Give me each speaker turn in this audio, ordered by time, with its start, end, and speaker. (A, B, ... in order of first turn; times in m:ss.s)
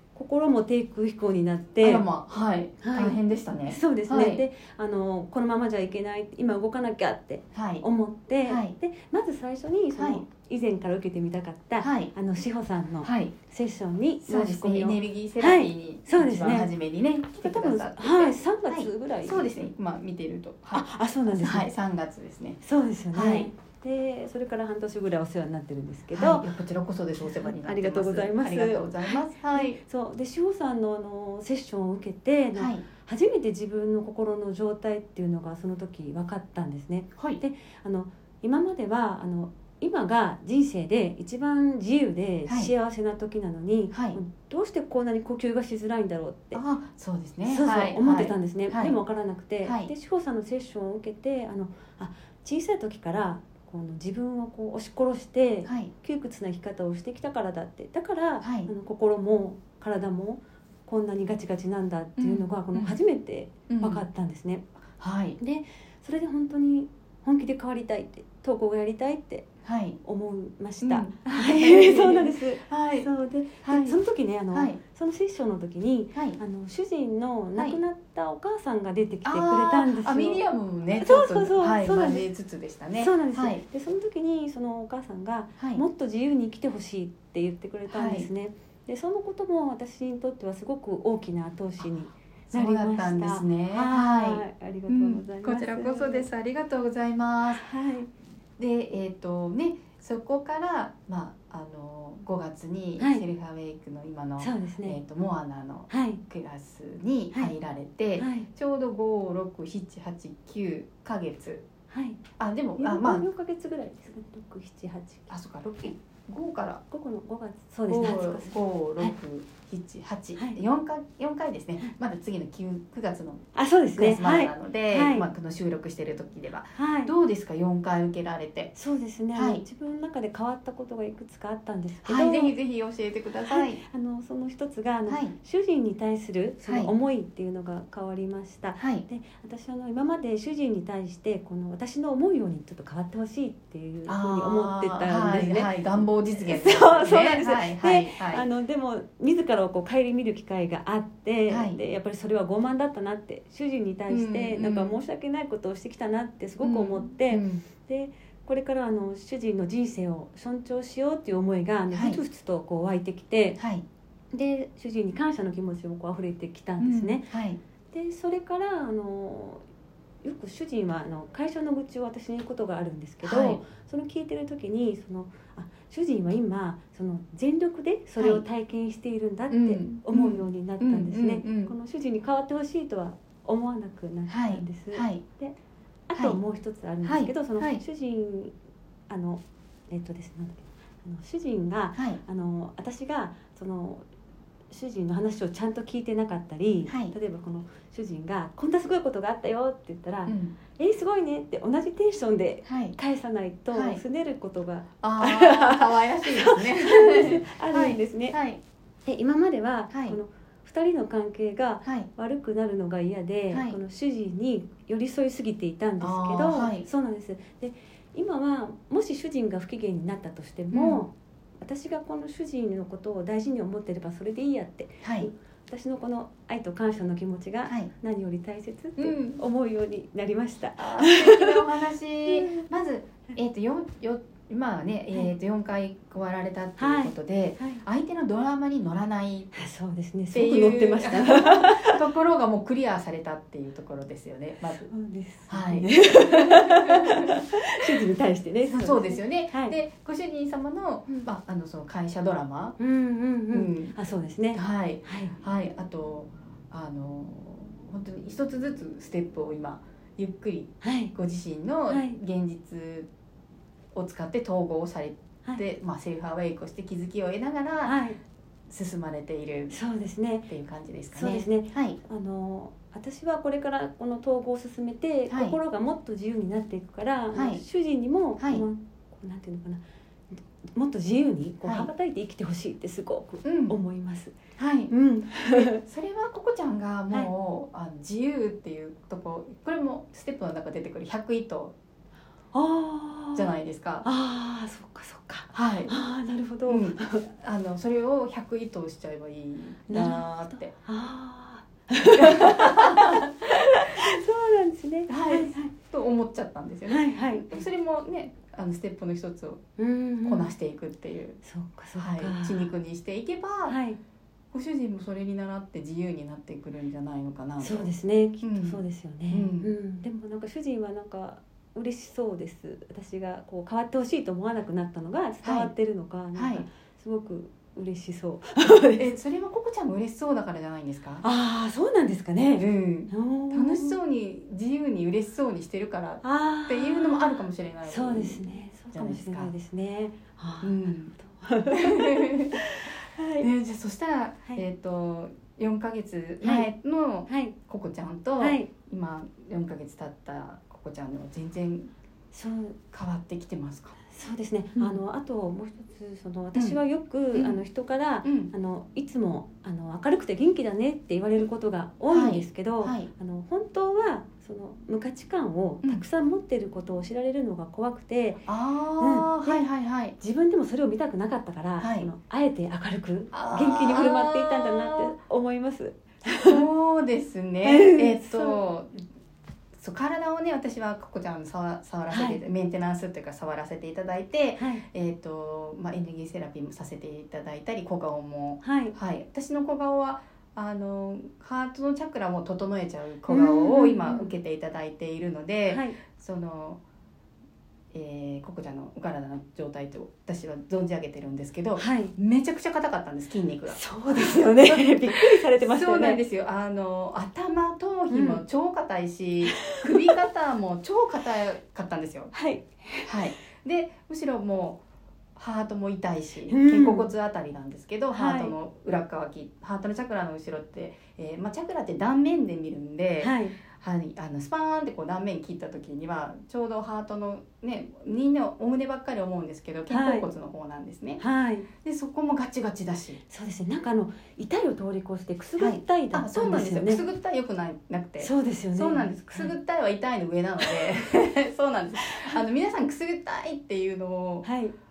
0:00.2-0:02.0 A
0:01.8-0:04.4 B
0:02.8-0:16.7 A
0:07.5-0:07.8 B
0:08.4-0:08.8 B
0:10.0-0:10.2 B
0:11.8-0:12.1 B
0:13.0-0:13.3 B
0:14.2-0:22.6 B
0:17.4-0:19.6 A
0:20.7-0:21.7 A
0:22.6-0:26.4 A
0:23.1-0:23.5 B
0:26.1-0:29.8 B
0:27.2-0:46.6 A
0:32.6-0:32.8 B
0:37.2-0:37.4 B
0:42.5-0:42.7 B
0:43.9-0:44.2 B
0:46.5-0:49.0 B
0:47.4-1:04.7 A
0:49.6-0:49.9 B
0:55.6-0:55.9 B
0:58.4-0:58.7 B
1:02.2-1:03.0 B
1:03.7-1:04.0 B
1:05.0-1:05.4 B
1:05.4-1:09.5 A
1:09.6-1:10.0 B
1:10.0-1:20.4 A
1:10.8-1:13.1 B
1:13.6-1:14.0 B
1:14.5-1:14.8 B
1:16.1-1:16.4 B
1:19.2-1:23.6 B
1:21.0-1:22.2 A
1:23.0-1:36.3 A
1:25.6-1:25.8 B
1:27.9-1:28.3 B
1:32.5-1:37.7 B
1:37.5-1:38.1 A
1:38.6-1:51.6 B
1:43.0-1:43.2 A
1:44.4-1:45.0 A
1:45.9-1:46.2 A
1:48.2-1:48.5 A
1:51.9-1:52.2 A
1:52.4-1:53.2 B
1:52.8-1:55.3 A
1:55.3-1:56.8 B
1:56.9-1:59.2 A
1:57.9-2:08.7 B
2:03.6-2:05.2 A
2:06.8-2:07.1 A
2:08.8-2:12.5 A
2:09.3-2:09.6 B
2:12.0-2:13.8 B
2:13.5-2:43.6 A
2:15.1-2:15.3 B
2:16.6-2:16.9 B
2:18.8-2:19.0 B
2:24.1-2:28.4 B
2:31.5-2:31.8 B
2:34.1-2:35.0 B
2:36.6-2:37.6 B
2:41.9-2:42.2 B
2:43.6-2:43.8 B
2:44.3-2:47.3 A
2:46.8-2:47.6 B
2:47.9-2:49.6 A
2:50.2-3:05.6 A
2:53.2-2:53.6 B
2:58.2-2:58.4 B
2:59.5-3:01.7 B
3:04.3-3:05.2 B
3:06.1-3:08.5 A
3:07.0-3:07.8 B
3:09.1-3:14.0 A
3:14.7-3:28.4 A
3:16.9-3:17.1 B
3:20.3-3:20.6 B
3:22.7-3:23.0 B
3:23.7-3:24.0 B
3:25.0-3:28.6 B
3:29.1-3:51.7 A
3:29.9-3:30.2 B
3:33.5-3:33.8 B
3:36.0-3:36.9 B
3:40.7-3:41.0 B
3:45.0-3:45.3 B
3:47.7-3:47.9 B
3:49.0-3:49.4 B
3:50.8-3:59.5 B
3:52.3-3:52.6 A
3:56.8-3:57.8 A
3:59.5-4:02.0 A
4:00.3-4:04.9 B
4:04.9-4:09.8 A
4:05.5-4:07.4 B
4:08.7-4:12.8 B
4:12.8-4:15.4 A
4:13.5-4:14.0 B
4:14.5-4:23.1 B
4:20.8-4:21.1 A
4:21.9-4:22.2 A
4:23.9-4:28.0 B
4:27.8-4:28.2 A
4:28.7-4:29.8 B
4:29.7-4:30.5 A
4:30.5-4:32.0 B
4:31.1-4:39.8 A
4:35.3-4:35.6 B
4:37.3-4:37.6 B
4:38.4-4:38.6 B
4:40.4-4:44.4 A
4:41.6-4:41.9 B
4:43.4-4:43.8 B
4:44.6-4:44.9 B
4:44.9-4:45.8 A
4:45.4-4:51.7 B
4:52.5-4:57.3 A
4:53.4-4:54.1 B
4:55.5-4:55.9 B
4:56.7-5:00.7 B
4:59.9-5:05.7 A
5:02.2-5:03.5 B
5:05.1-5:09.6 B
5:06.9-5:07.6 A
5:09.8-5:10.5 A
5:10.2-5:11.4 B
5:11.4-5:12.7 A
5:12.0-5:13.8 B
5:13.7-5:14.0 A
5:14.5-5:19.7 B
5:17.6-5:29.1 A
5:25.4-5:25.7 B
5:26.4-5:26.7 B
5:29.0-5:31.2 B
5:31.2-5:34.0 A
5:32.6-5:39.5 B
5:36.2-5:43.5 A
5:40.6-5:41.2 B
5:41.7-5:42.5 B
5:43.4-5:51.9 B
5:46.4-5:46.7 A
5:47.3-5:47.6 A
5:48.4-5:48.7 A
5:52.3-5:52.8 A
5:52.9-5:54.0 B
5:54.1-6:08.4 A
5:56.6-5:56.8 B
5:57.3-5:57.6 B
5:58.2-5:58.5 B
6:02.1-6:03.1 B
6:08.4-6:10.2 B
6:09.0-6:09.7 A
6:10.2-6:16.6 A
6:11.8-6:12.1 B
6:13.3-6:15.1 B
6:16.4-6:19.0 B
6:17.6-6:18.6 A
6:19.8-6:36.8 B
6:22.1-6:22.4 A
6:24.6-6:24.8 A
6:28.6-6:28.9 A
6:33.3-6:34.3 A
6:35.7-6:36.0 A
6:37.9-6:52.3 B
6:41.8-6:42.1 A
6:43.7-6:46.2 A
6:48.1-6:48.4 A
6:49.4-6:50.2 A
6:52.3-6:53.3 A
6:53.0-6:54.8 B
6:55.3-7:11.2 B
6:56.5-6:57.1 A
6:58.1-6:58.6 A
7:03.2-7:03.6 A
7:09.9-7:10.3 A
7:11.2-7:11.7 A
7:11.8-7:13.2 B
7:13.3-7:17.0 A
7:15.6-7:24.4 B
7:18.2-7:19.5 A
7:24.4-7:24.7 A